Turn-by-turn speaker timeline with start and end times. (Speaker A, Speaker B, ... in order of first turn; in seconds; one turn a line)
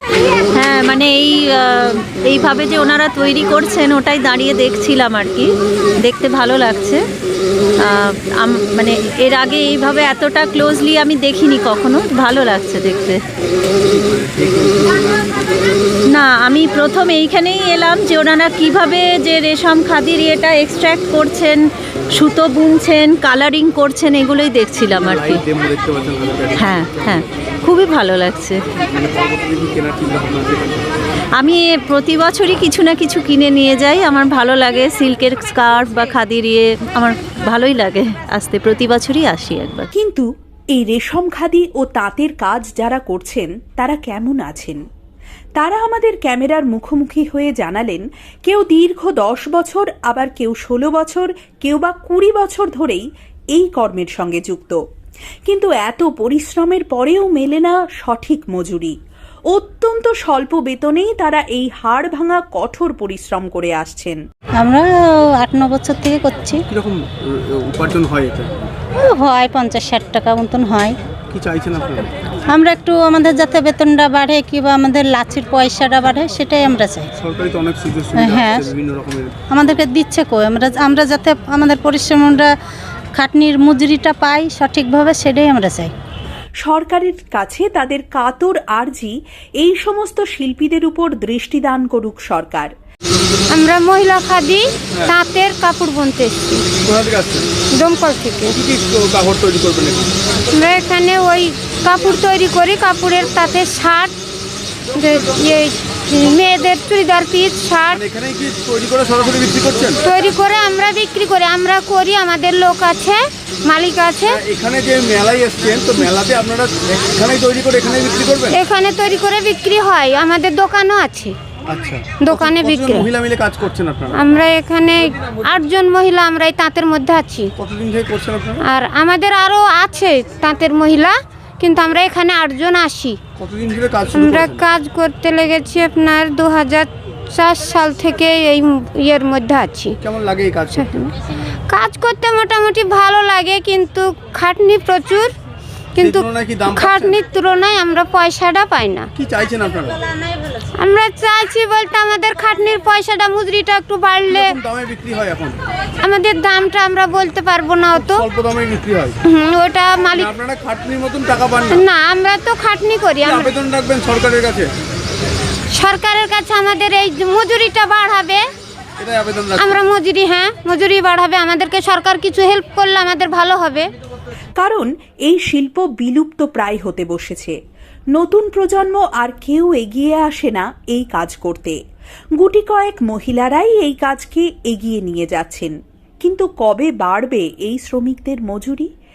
Speaker A: 0.6-5.5
Speaker A: 6.0-7.0
Speaker A: 7.9-13.2
Speaker B: 13.9-15.4
Speaker A: 16.1-21.6
Speaker A: 22.1-25.4
Speaker B: 24.9-27.2
Speaker A: 26.6-28.6
Speaker B: 28.9-30.9
Speaker A: 31.4-39.9
Speaker C: 39.9-44.8
Speaker C: 45.6-54.8
Speaker C: 55.5-59.0
Speaker C: 59.5-64.2
Speaker D: 64.6-66.6
Speaker B: 66.7-68.7
Speaker D: 69.0-71.0
Speaker B: 71.3-72.1
Speaker D: 72.5-77.1
Speaker B: 77.2-79.3
Speaker D: 78.1-78.7
Speaker D: 79.5-82.5
Speaker D: 83.2-85.9
Speaker C: 86.6-92.7
Speaker E: 93.5-96.7
Speaker B: 96.8-97.5
Speaker E: 97.7-98.6
Speaker B: 98.5-100.1
Speaker E: 100.5-104.1
Speaker E: 104.9-108.0
Speaker B: 107.9-110.0
Speaker E: 110.0-114.4
Speaker B: 114.2-118.5
Speaker E: 118.5-121.3
Speaker B: 121.7-124.2
Speaker E: 122.2-123.1
Speaker E: 124.1-127.5
Speaker B: 127.6-128.6
Speaker E: 128.7-133.2
Speaker B: 133.4-134.6
Speaker E: 134.1-140.0
Speaker B: 140.0-140.9
Speaker E: 140.7-141.1
Speaker E: 141.7-145.3
Speaker E: 145.9-149.1
Speaker B: 146.0-147.2
Speaker B: 149.1-150.0
Speaker E: 150.8-154.6
Speaker B: 154.3-155.6
Speaker E: 156.0-158.2
Speaker B: 157.9-159.2
Speaker E: 159.2-160.3
Speaker B: 160.2-161.8
Speaker E: 161.7-163.6
Speaker B: 163.2-164.7
Speaker E: 165.7-168.4
Speaker B: 169.0-169.8
Speaker E: 169.6-173.9
Speaker C: 174.6-177.6
Speaker C: 178.1-181.8
Speaker C: 182.4-188.9